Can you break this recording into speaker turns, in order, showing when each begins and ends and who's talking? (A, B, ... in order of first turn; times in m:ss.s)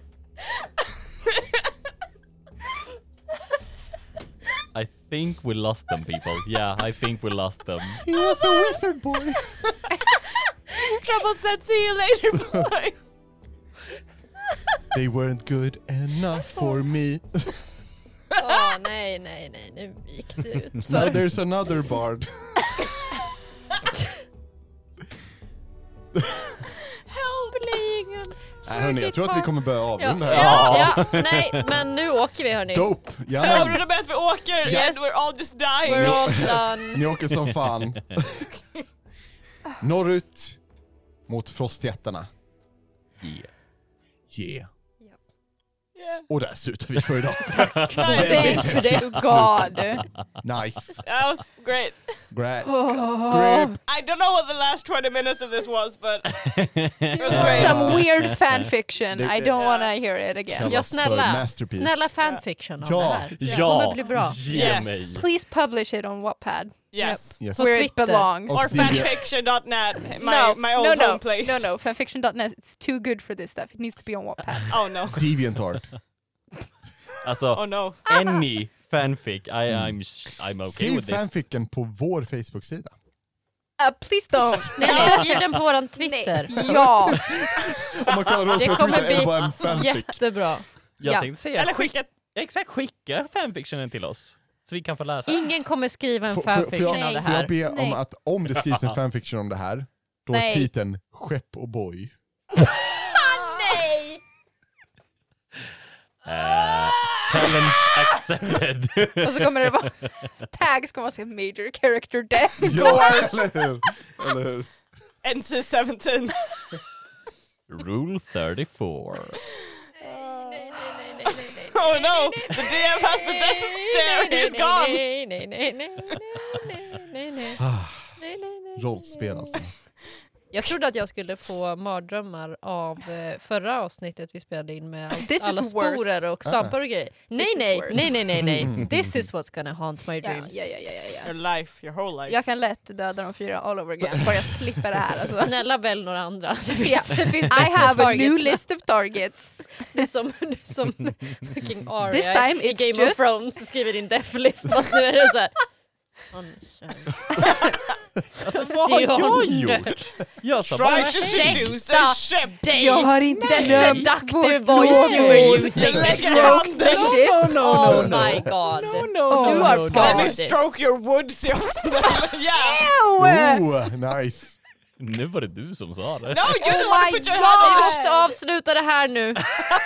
0:04.7-0:08.0 A
0:08.0-0:09.4 B
0:08.2-0:08.7 C
0:10.0-0:13.0 C
0:14.9-0:17.6 B
0:18.4-0:21.2 D
0:20.8-0:22.8 B
0:26.1-0:26.6 B
0:27.0-0:27.9 C
0:27.5-0:33.8 D
0:28.6-0:31.1 B
0:30.2-0:31.7 A
0:32.7-0:33.8 B
0:33.4-0:36.6 C
0:34.6-0:35.2 D
0:35.8-0:37.1 D
0:35.8-0:38.5 B
0:39.8-0:40.6 B
0:41.3-0:42.3 B
0:43.2-0:43.5 A
0:44.3-0:44.7 B
0:46.0-0:46.2 C
0:46.3-0:51.0 B
0:47.5-0:48.4 A
0:47.9-0:48.7 C
0:48.0-0:50.0 E
0:48.2-0:49.1 D
0:51.0-0:52.2 C
0:52.3-0:53.8 B
0:52.6-0:53.8 E
0:53.9-0:56.5 C
0:56.3-0:58.4 A
0:57.0-0:58.0 C
0:57.2-1:00.8 E
0:57.3-0:58.0 B
0:59.1-0:59.6 B
0:59.5-0:59.9 C
1:00.5-1:02.1 B
1:00.6-1:04.4 D
1:02.8-1:03.5 B
1:03.3-1:05.3 A
1:03.4-1:03.9 C
1:04.5-1:05.0 C
1:04.5-1:09.1 E
1:06.9-1:07.4 C
1:07.0-1:08.5 D
1:07.4-1:09.2 B
1:08.5-1:11.7 C
1:10.1-1:14.8 E
1:14.7-1:15.3 C
1:15.1-1:15.9 B
1:17.2-1:21.4 A
1:17.5-1:18.0 C
1:19.7-1:20.0 B
1:20.6-1:22.9 B
1:23.8-1:27.4 E
1:24.7-1:26.5 D
1:24.8-1:25.1 C
1:26.5-1:30.2 B
1:28.5-1:30.7 D
1:31.0-1:35.5 A
1:31.0-1:31.3 E
1:31.6-1:32.1 C
1:35.3-1:37.6 D
1:36.3-1:42.1 B
1:36.8-1:38.0 E
1:40.3-1:40.7 E
1:42.8-1:44.2 D
1:46.2-1:50.3 A
1:49.2-1:53.3 E
1:52.6-1:54.7 B
1:55.2-1:56.8 C
1:57.7-1:59.4 A
2:00.0-2:05.0 C
2:00.0-2:07.6 D
2:07.6-2:08.2 B
2:08.2-2:09.6 D
2:08.7-2:09.7 B
2:10.5-2:20.6 D
2:15.1-2:16.2 E
2:16.4-2:16.8 B
2:17.4-2:18.2 E
2:18.4-2:18.9 B
2:20.2-2:21.3 E
2:21.2-2:22.4 C
2:22.3-2:25.6 E
2:25.4-2:28.7 D
2:26.8-2:30.1 E
2:29.8-2:35.7 D
2:32.0-2:33.3 E
2:36.2-2:37.8 D
2:38.4-2:41.8 A
2:38.5-2:40.2 D
2:40.6-2:42.8 C
2:40.8-2:50.6 D
2:42.7-2:50.4 E
2:43.4-2:44.1 A
2:44.8-2:50.3 A
2:45.7-2:47.3 C
2:49.9-2:52.9 C
2:52.1-2:53.7 E
2:53.2-2:54.6 B
2:55.0-2:56.6 A
2:56.3-2:58.3 C
2:56.5-2:58.3 E
2:57.6-2:59.6 D